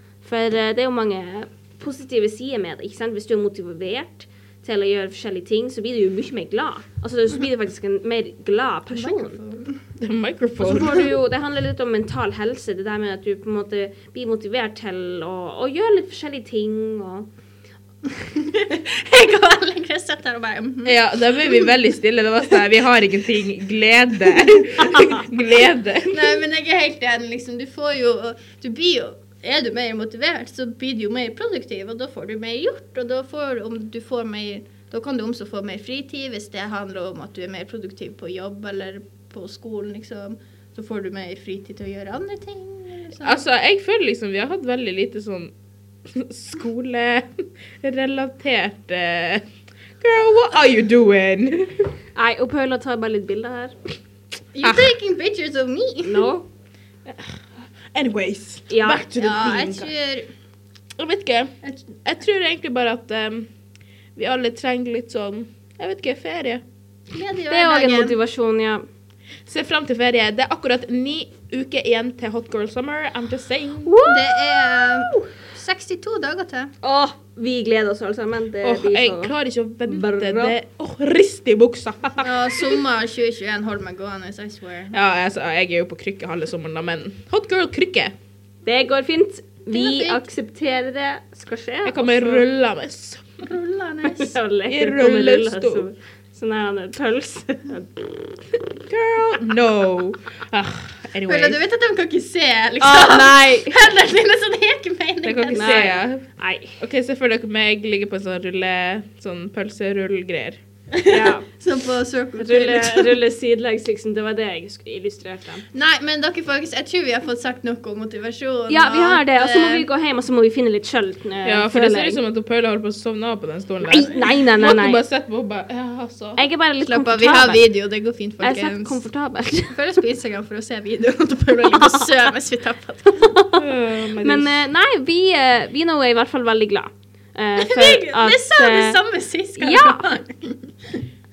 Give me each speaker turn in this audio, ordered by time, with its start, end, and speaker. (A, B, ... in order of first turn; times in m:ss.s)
0:00.2-0:09.4 A
0:08.9-0:09.8 B
0:10.0-0:11.1 C
0:10.6-0:17.3 A
0:18.2-0:21.7 B
0:20.8-0:26.3 C
0:24.3-0:25.0 B
0:26.1-0:43.4 B
0:43.2-0:45.5 C
0:46.1-0:49.4 C
0:50.0-0:51.9 C
0:52.2-0:53.7 A
0:54.5-0:56.3 B
0:54.6-0:54.9 C
0:56.0-0:56.4 A
0:57.0-0:57.4 C
0:57.9-0:59.9 C
0:58.7-0:59.0 A
0:59.1-1:00.3 B
1:01.0-1:01.5 C
1:02.0-1:03.5 C
1:04.2-1:06.6 C
1:07.1-1:08.2 B
1:07.5-1:08.8 A
1:09.5-1:14.0 C
1:13.8-1:15.2 A
1:14.0-1:16.7 B
1:16.8-1:19.3 A
1:18.6-1:22.3 C
1:19.9-1:20.5 A
1:22.2-1:25.0 B
1:24.9-1:28.1 C
1:28.6-1:32.4 A
1:29.7-1:30.2 B
1:31.8-1:33.2 C
1:33.4-1:34.3 B
1:34.0-1:38.3 A
1:34.7-1:35.9 C
1:38.9-1:41.6 C
1:41.2-1:45.9 B
1:42.8-1:43.8 A
1:45.2-1:50.6 C
1:45.5-1:46.8 A
1:50.9-1:53.2 B
1:51.1-1:51.4 A
1:52.4-1:55.6 A
1:55.7-1:59.9 B
1:58.7-2:02.2 A
2:01.4-2:06.4 C
2:03.8-2:05.0 A
2:06.4-2:07.6 A
2:06.8-2:09.0 B
2:08.4-2:09.8 A
2:09.7-2:13.3 B
2:11.7-2:12.1 A
2:13.2-2:13.6 A
2:13.6-2:14.6 C
2:14.2-2:19.0 A
2:17.6-2:21.0 B
2:19.6-2:20.1 A